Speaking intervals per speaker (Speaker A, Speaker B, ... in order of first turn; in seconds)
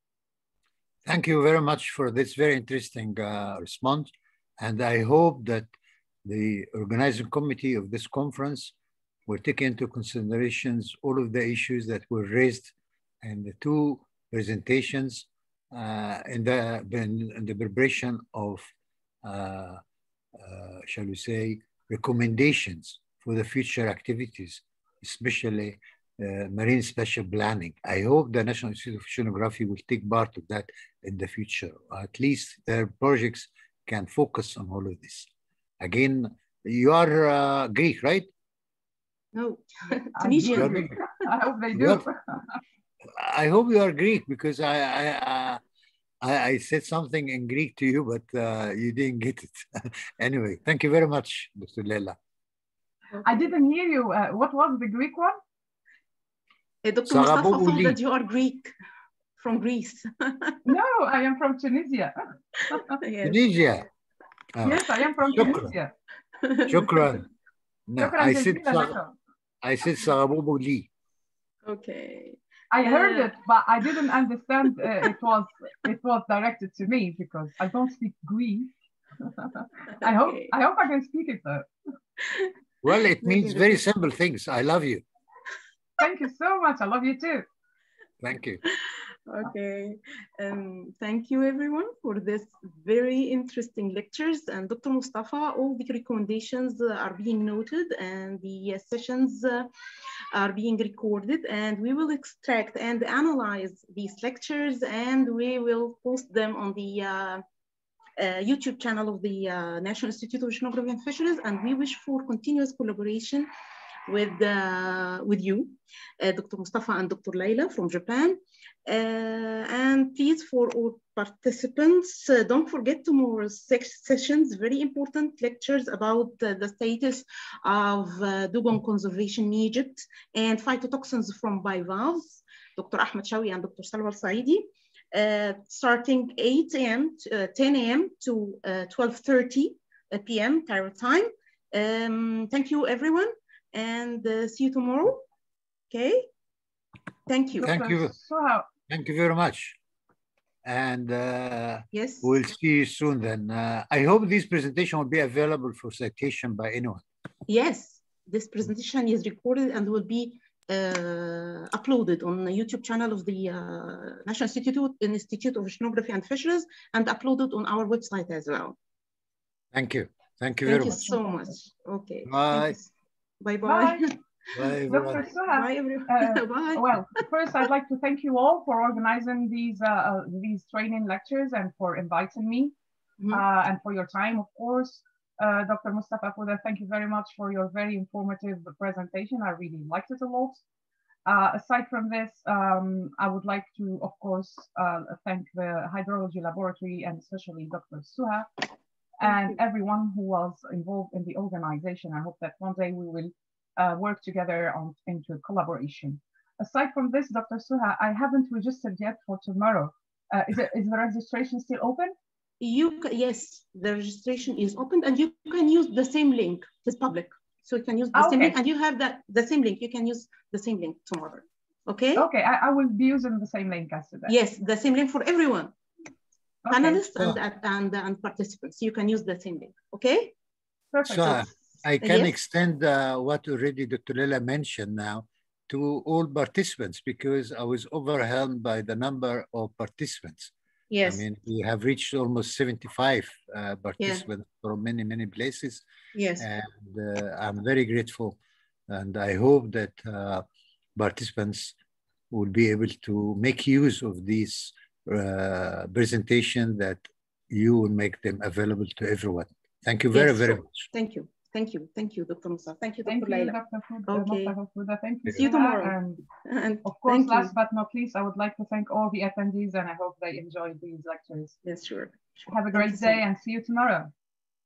Speaker A: 1.0-5.7, 6.2-8.7, 9.3-18.7, 19.2-19.8, 20.4-35.3, 35.8-38.3, 40.5-40.9, 41.7-42.0, 43.1-45.6, 46.2-52.2, 57.0-58.0, 63.2-63.9, 64.5-65.7, 66.7-67.2, 67.9-68.9, 69.6-70.9, 82.8-85.0, 88.2-88.6, 147.6-148.1, 148.9-149.8, 150.6-157.0, 169.7-171.1, 172.2-172.8, 174.5-175.2, 231.0-240.5, 241.0-245.8, 246.4-248.4, 248.9-250.4, 250.9-251.8, 252.3-260.9
Speaker B: 39.3-41.2, 53.1-53.5, 56.8-58.7, 59.4-60.6, 62.9-63.4, 66.4-67.0, 71.6-73.3, 80.0-80.5, 82.2-82.5, 83.2-83.8, 88.7-99.7, 100.3-107.4, 108.2-113.5, 114.1-145.2, 145.9-146.3, 147.3-147.7, 151.9-152.3, 157.5-168.8, 170.6-176.9, 183.2-183.4, 212.6-222.3, 224.3-225.7, 226.7-230.3, 232.0-232.4, 240.9-241.2, 246.1-246.5, 260.1-263.6, 264.1-264.5, 265.3-267.5, 271.6-272.2, 272.7-273.2
Speaker C: 39.9-42.4, 53.2-55.4, 60.6-63.0, 64.6-65.9, 68.0-69.1, 72.7-78.7, 79.4-81.7, 86.0-87.5, 147.6-148.7, 170.9-171.6, 173.6-174.1, 174.9-182.7, 183.3-190.6, 191.2-198.5, 199.2-212.1, 218.1-218.5, 222.1-224.3, 226.6-227.0, 230.9-231.5, 263.1-266.2, 266.8-271.6, 272.5-274.1